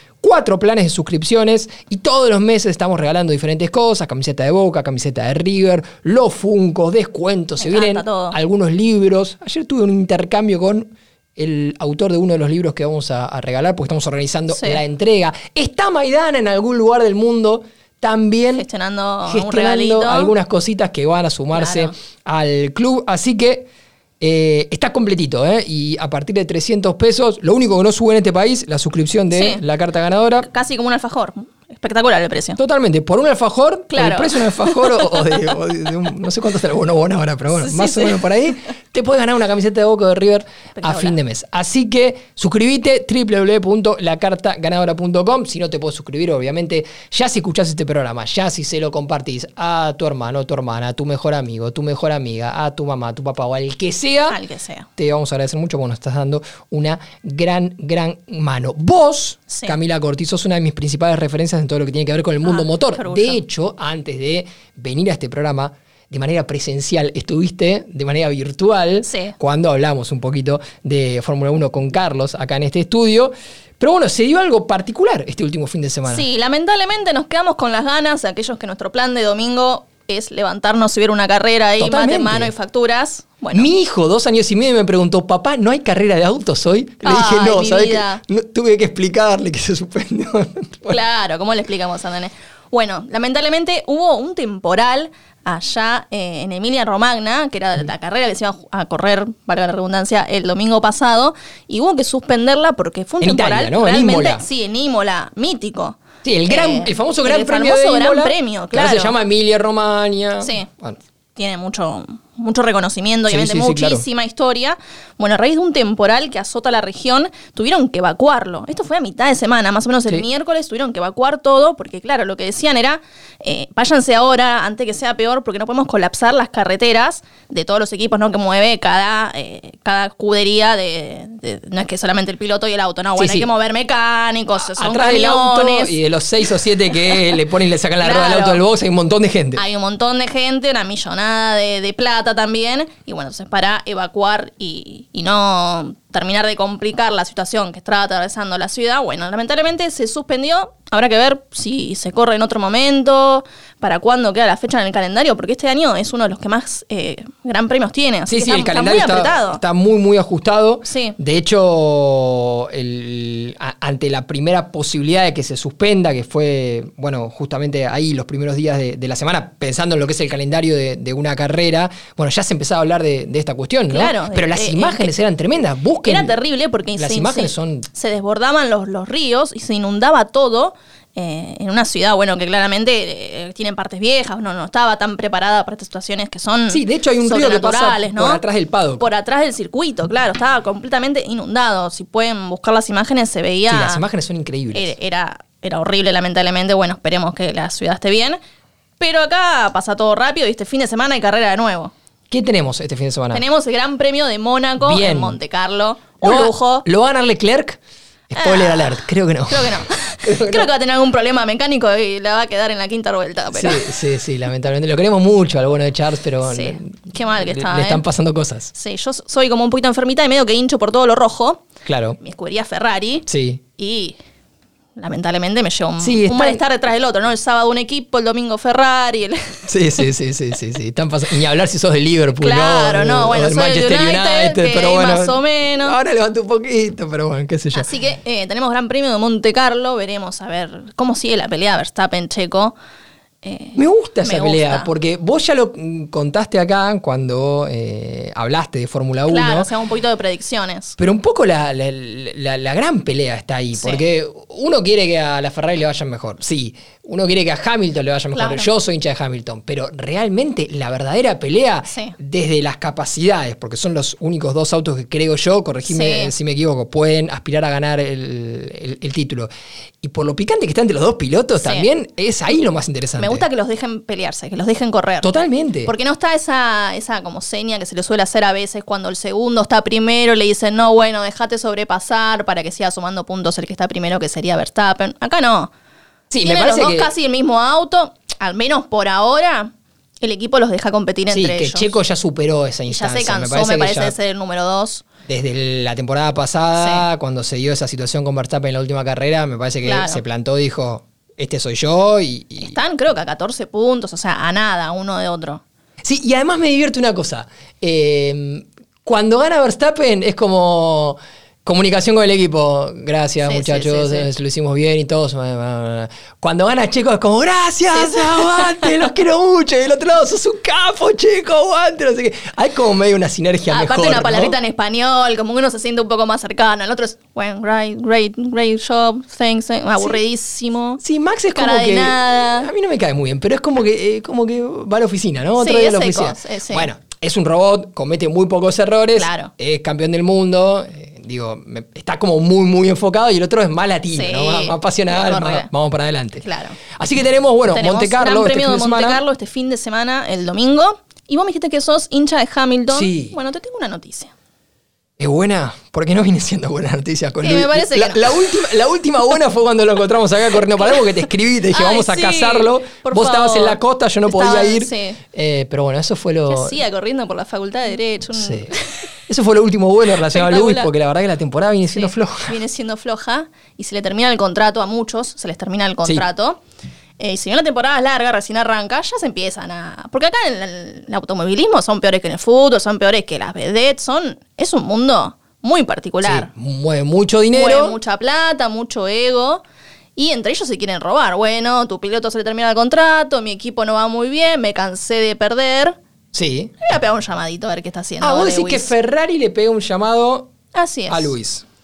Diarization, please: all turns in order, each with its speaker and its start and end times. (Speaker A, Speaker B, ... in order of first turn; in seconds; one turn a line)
Speaker A: 0.2-18.6
Speaker B: 7.6-8.4
Speaker B: 14.5-14.8
Speaker B: 18.5-20.3
Speaker A: 19.2-23.7
Speaker B: 21.5-21.9
Speaker A: 24.2-30.5
Speaker B: 29.3-29.6
Speaker B: 30.4-32.6
Speaker A: 32.5-54.4
Speaker B: 33.9-35.4
Speaker B: 37.5-38.2
Speaker B: 40.8-41.1
Speaker B: 54.3-54.9
Speaker A: 55.0-76.3
Speaker B: 59.5-59.7
Speaker B: 62.4-63.4
Speaker B: 69.0-69.3
Speaker B: 76.1-83.7
Speaker A: 81.8-82.5
Speaker A: 83.5-91.0
Speaker B: 87.0-88.2
Speaker B: 90.9-109.2
Speaker A: 103.2-104.4
Speaker A: 106.2-111.0
Speaker B: 110.4-110.7
Speaker B: 111.3-136.0
Speaker A: 113.3-114.0
Speaker A: 133.2-133.5
Speaker A: 134.7-139.6
Speaker B: 138.0-138.6
Speaker B: 139.5-159.6
Speaker A: 158.3-176.4
Speaker B: 160.8-161.1
Speaker B: 173.9-175.1
Speaker B: 176.0-188.4
Speaker A: 176.9-177.9
Speaker A: 186.7-189.1
Speaker B: 189.0-194.0
Speaker A: 193.7-194.9
Speaker B: 194.7-198.4
Speaker B: 199.0-201.9
Speaker A: 202.3-203.4
Speaker B: 203.3-206.8
Speaker A: 204.8-205.4
Speaker A: 206.2-207.8
Speaker A: 208.3-210.7
Speaker B: 208.3-213.9
Speaker A: 213.5-218.7
Speaker B: 216.4-218.0
Speaker B: 218.7-221.7
Speaker A: 221.8-222.2
Speaker B: 222.2-223.2
Speaker A: 223.3-223.6
Speaker B: 223.8-224.2
Speaker B: 225.0-229.7
Speaker A: 226.0-226.6
Speaker A: 229.6-237.9
Speaker B: 232.4-236.0
Speaker B: 237.7-242.8
Speaker B: 243.4-244.9
Speaker A: 243.7-249.7
Speaker B: 249.3-250.9
Speaker A: 251.0-269.5
Speaker B: 253.7-254.0
Speaker B: 258.3-258.7
Speaker B: 261.9-262.1
Speaker B: 265.9-266.3
Speaker A: 270.0-273.4
Speaker B: 271.6-271.9
Speaker B: 273.2-275.3
Speaker A: 275.2-275.9
Speaker B: 275.9-285.7
Speaker A: 286.3-287.1
Speaker B: 286.4-291.9
Speaker A: 291.3-294.1
Speaker B: 292.9-295.0
Speaker A: 295.2-302.8
Speaker B: 296.8-297.0
Speaker B: 299.8-300.2
Speaker B: 302.6-305.6
Speaker A: 306.0-324.6
Speaker B: 313.4-314.3
Speaker B: 317.9-318.9
Speaker B: 323.7-331.0
Speaker A: 331.0-349.2
Speaker B: 331.5-332.7
Speaker B: 335.6-336.9
Speaker B: 339.1-339.5
Speaker B: 344.1-345.7
Speaker B: 346.4-346.8
Speaker B: 347.7-354.3
Speaker A: 352.9-353.4
Speaker A: 355.2-366.8
Speaker B: 357.4-358.3
Speaker B: 361.7-365.2
Speaker B: 366.5-369.1
Speaker A: 368.3-372.6
Speaker B: 370.3-370.9
Speaker B: 371.9-376.6
Speaker B: 377.2-386.5
Speaker A: 386.2-388.0
Speaker B: 387.5-389.6
Speaker B: 390.1-396.0
Speaker A: 396.3-396.8
Speaker B: 396.8-398.9
Speaker A: 398.2-400.5
Speaker B: 400.7-401.3
Speaker A: 401.1-401.6